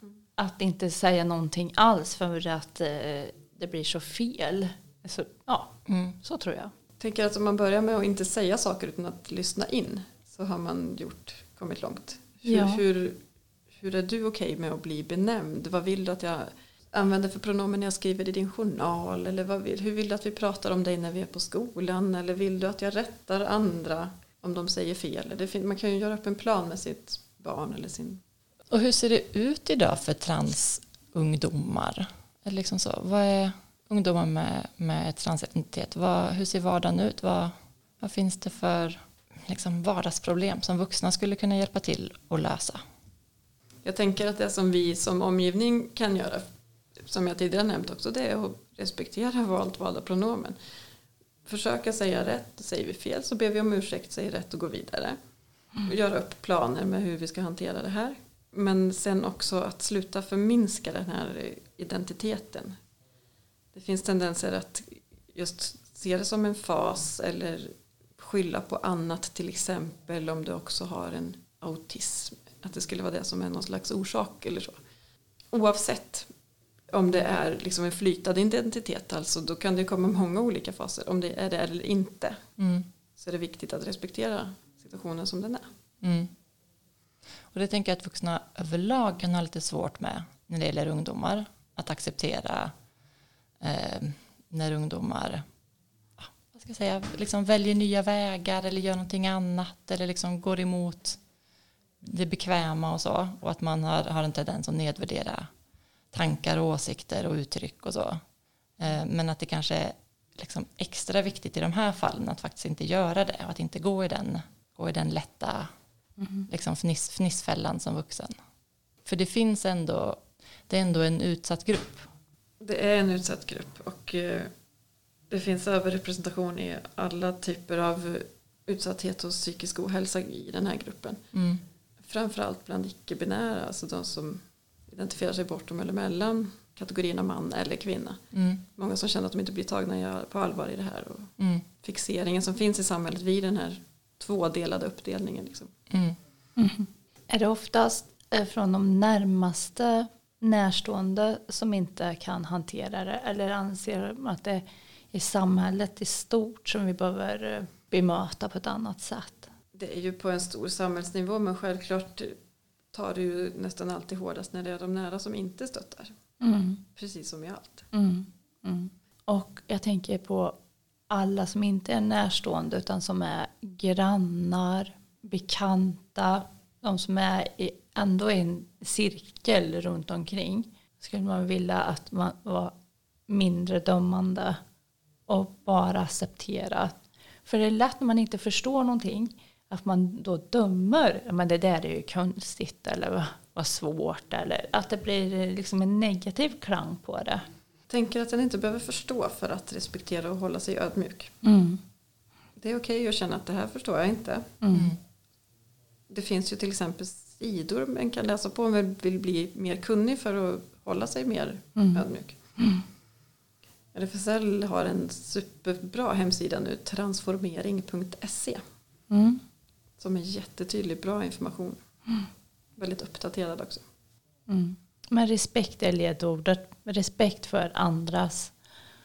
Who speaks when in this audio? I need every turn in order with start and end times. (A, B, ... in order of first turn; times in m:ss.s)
0:00.4-0:06.7 A
0:05.9-0:06.2 B
0:07.0-0:28.2 C
0:12.4-0:12.8 A
0:28.7-0:42.8 B
0:43.8-0:46.4 C
0:47.0-0:50.6 C
0:51.4-0:55.2 C
0:55.8-1:02.8 C
1:03.7-1:14.8 C
1:15.5-1:16.3 C
1:16.9-1:22.4 C
1:22.6-1:22.9 B
1:23.2-1:25.7 C
1:26.0-1:26.3 B
1:27.5-1:32.7 B
1:33.6-1:35.4 B
1:36.2-1:41.2 B
1:42.0-1:45.5 B
1:46.1-1:48.2 B
1:48.8-1:55.7 B
1:56.2-1:56.5 A
1:56.5-1:58.4 B
1:59.0-2:02.1 B
2:02.6-2:04.5 C
2:05.3-2:11.2 C
2:11.3-2:11.6 B
2:12.0-2:18.2 C
2:18.3-2:18.6 B
2:18.7-2:25.7 C
2:21.4-2:21.6 B
2:25.9-2:26.2 B
2:26.6-2:39.5 A
2:39.7-2:42.4 C
2:42.9-2:46.1 C
2:46.4-2:46.8 A
2:47.0-2:47.9 C
2:47.9-2:50.6 A
2:51.1-3:02.7 A
3:03.3-3:04.6 A
3:05.3-3:17.4 A
3:17.9-3:21.3 C
3:21.4-3:21.8 A
3:22.6-3:24.6 C
3:24.6-3:24.9 A
3:24.7-3:25.0 B
3:26.1-3:32.4 C
3:31.8-3:32.0 A
3:32.6-3:32.8 A
3:33.9-3:38.6 C
3:39.1-3:39.4 A
3:40.0-3:41.8 C
3:42.8-3:43.8 C
3:44.5-3:48.5 A